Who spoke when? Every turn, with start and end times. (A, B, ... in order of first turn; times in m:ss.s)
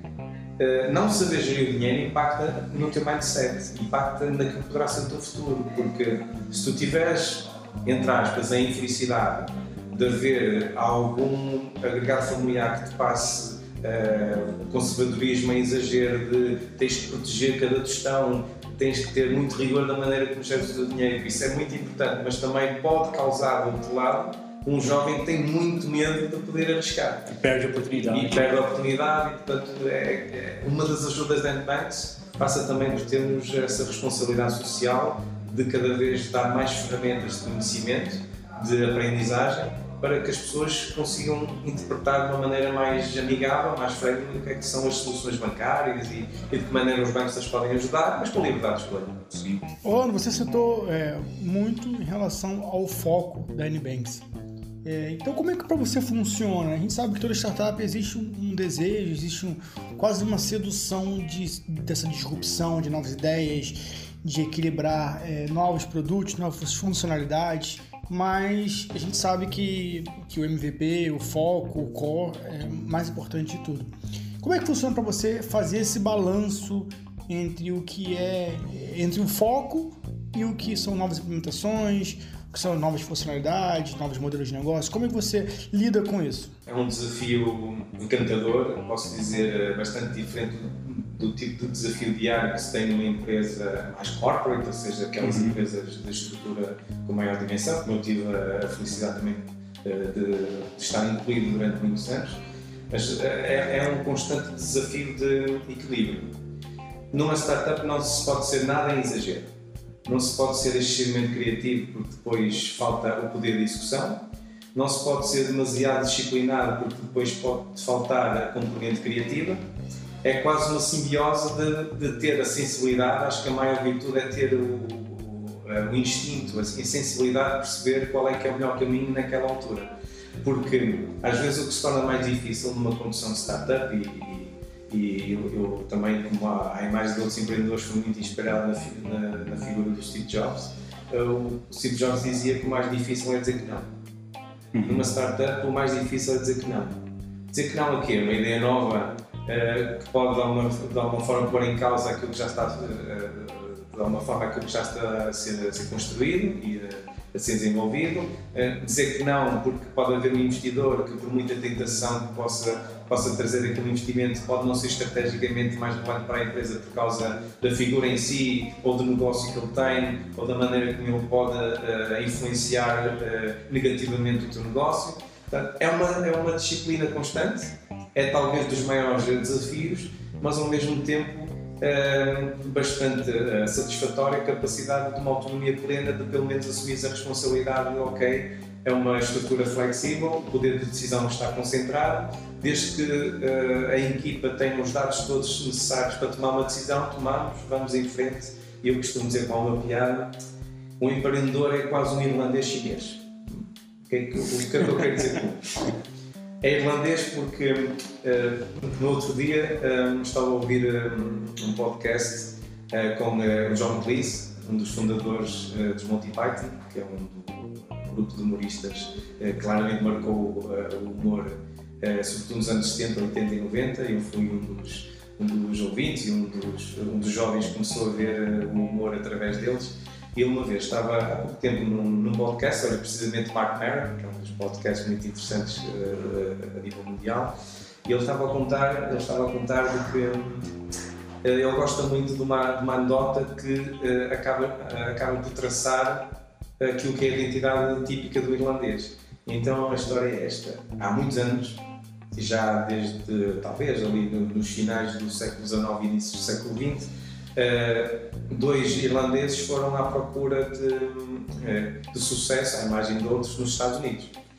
0:00.6-0:27.3 A
0:27.3-0:28.4 B
0:28.0-0:49.2 A
0:49.3-0:49.6 B
0:49.8-0:54.2 C
0:54.8-1:26.5 C
1:26.6-1:46.3 A
1:35.2-1:35.6 B
1:47.1-1:49.5 A
1:50.0-1:54.2 A
1:54.7-1:59.6 A
2:00.2-2:09.9 A
2:10.4-2:23.9 A
2:24.8-2:25.0 B
2:24.8-2:27.0 A
2:27.5-3:20.3 A
3:21.0-3:25.7 A
3:26.6-4:00.7 A
4:01.4-4:06.2 A
4:06.8-4:11.8 A
4:12.3-4:24.3 A